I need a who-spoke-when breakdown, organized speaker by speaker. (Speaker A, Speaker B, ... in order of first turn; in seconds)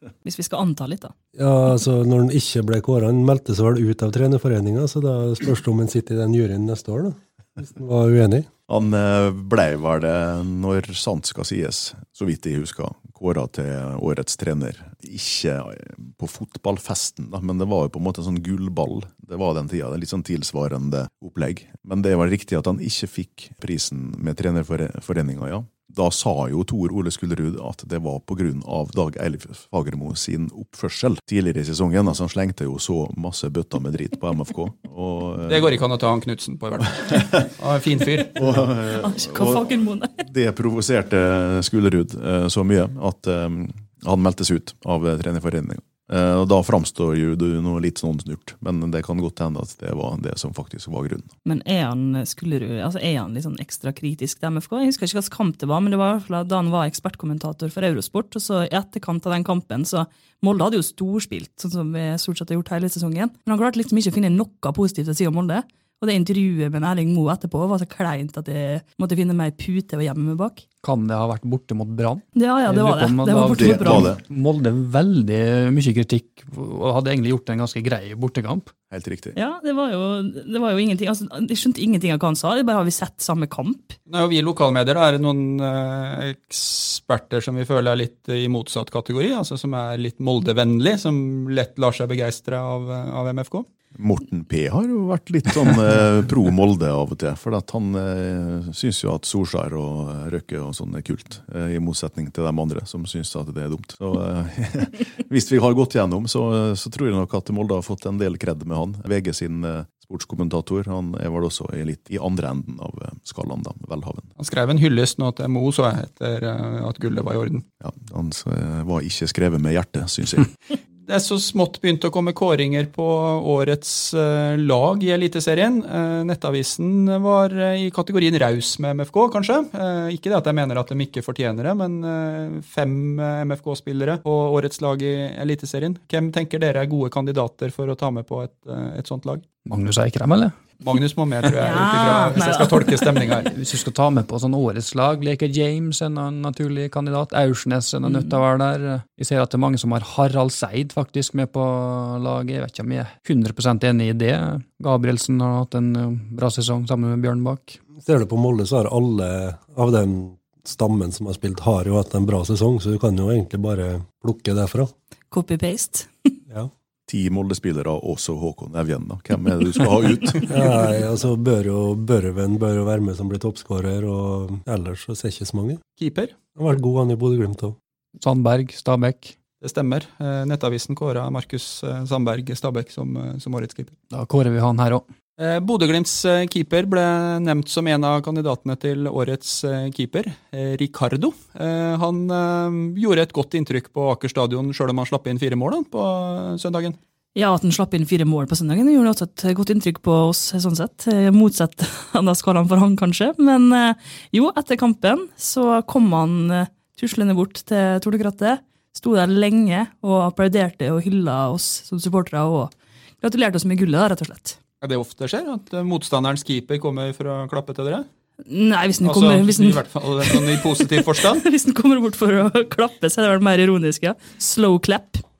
Speaker A: 0.2-1.1, 39.0-40.1, 51.5-70.6, 72.3-74.1, 79.4-84.0, 141.6-143.5, 148.1-148.4, 165.3-166.3, 197.3-214.6, 218.5-225.2
Speaker B: 1.4-8.5, 158.0-164.9, 170.5-175.8, 176.6-177.8
Speaker C: 8.7-35.8, 38.4-51.3, 73.5-74.2, 78.9-79.4, 93.9-114.3, 117.8-120.5, 167.1-170.5
Speaker D: 35.5-38.5, 84.1-93.7, 114.4-117.6, 121.1-139.4, 140.8-143.5, 176.0-176.3, 179.6-183.9, 185.4-197.0, 214.8-218.1, 219.0-221.4
Speaker E: 70.8-78.7, 139.7-140.6, 143.5-157.8, 178.2-179.3, 184.1-185.1